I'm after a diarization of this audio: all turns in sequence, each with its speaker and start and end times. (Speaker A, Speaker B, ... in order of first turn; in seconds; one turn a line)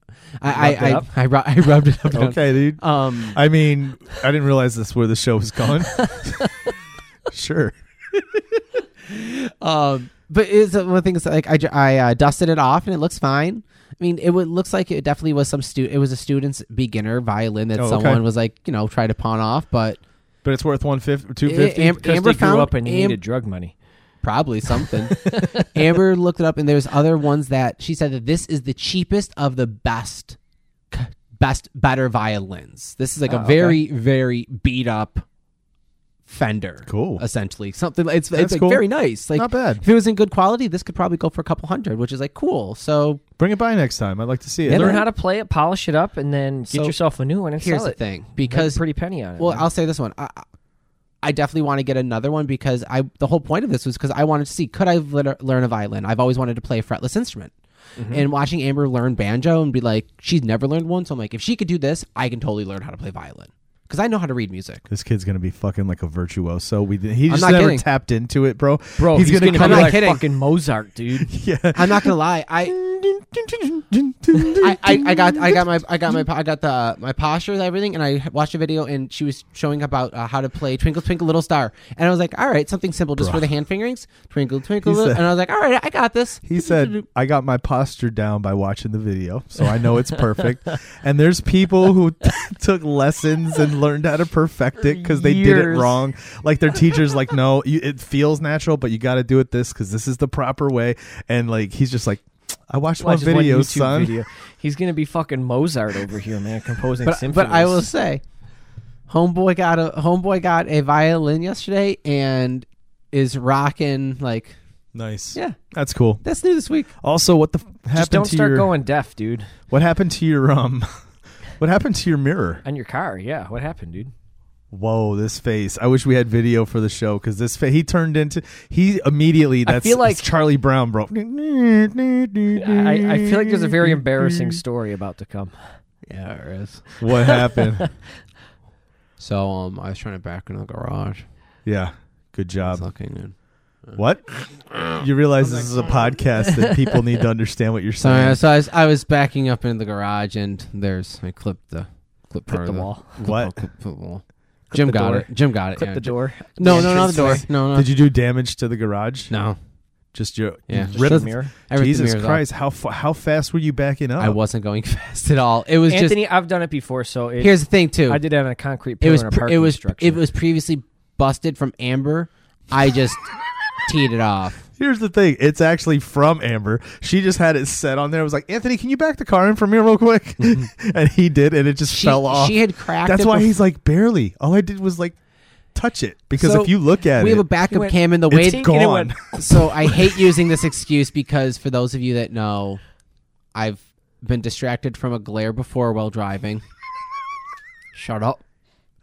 Speaker A: 0.4-3.4
Speaker B: 0.6-1.1
Speaker C: 0.6-1.0
Speaker C: 2.0-6.4
Speaker C: 7.3-7.7
Speaker A: 9.1-20.0
Speaker C: 17.8-18.2
Speaker C: 20.4-22.0
Speaker A: 21.4-23.2
Speaker B: 22.0-23.7
Speaker A: 24.2-30.4
Speaker B: 25.2-25.5
Speaker A: 30.9-35.2
Speaker B: 33.3-33.8
Speaker A: 36.3-43.2
Speaker C: 36.9-37.2
Speaker C: 38.3-39.8
Speaker C: 43.4-45.0
Speaker A: 44.7-45.1
Speaker B: 44.7-49.7
Speaker A: 46.7-47.0
Speaker A: 47.6-48.8
Speaker A: 49.4-50.5
Speaker A: 51.2-57.5
Speaker B: 58.0-58.2
Speaker A: 58.1-64.8
Speaker C: 64.9-70.0
Speaker A: 67.3-67.9
Speaker B: 69.0-71.3
Speaker A: 69.5-70.2
Speaker C: 71.3-75.7
Speaker A: 71.8-72.8
Speaker A: 74.5-87.0
Speaker C: 83.2-83.5
Speaker C: 84.8-85.3
Speaker C: 86.5-104.1
Speaker B: 94.8-96.0
Speaker B: 103.0-107.8
Speaker A: 107.0-108.2
Speaker A: 109.1-114.6
Speaker C: 114.9-116.2
Speaker A: 116.2-116.9
Speaker C: 117.0-118.7
Speaker B: 118.0-119.5
Speaker C: 119.7-120.9
Speaker C: 121.6-122.6
Speaker B: 122.7-124.1
Speaker C: 124.7-134.6
Speaker B: 129.7-130.3
Speaker B: 132.6-135.6
Speaker A: 136.1-136.9
Speaker C: 137.0-137.9
Speaker A: 139.2-141.2
Speaker C: 141.7-142.9
Speaker A: 142.7-144.0
Speaker C: 144.0-148.4
Speaker A: 148.0-157.9
Speaker B: 152.5-153.1
Speaker C: 153.2-153.6
Speaker B: 154.8-157.4
Speaker C: 156.7-159.3
Speaker A: 159.3-159.6
Speaker C: 160.1-164.4
Speaker A: 160.7-162.4
Speaker B: 160.9-161.5
Speaker A: 164.2-166.3
Speaker B: 165.9-170.2
Speaker A: 167.4-168.2
Speaker A: 169.0-173.3
Speaker A: 173.8-174.7
Speaker C: 174.8-185.2
Speaker A: 181.9-183.6
Speaker C: 185.8-187.5
Speaker A: 186.3-192.8
Speaker B: 187.7-189.3
Speaker C: 188.3-189.9
Speaker A: 193.5-196.6
Speaker A: 197.9-198.4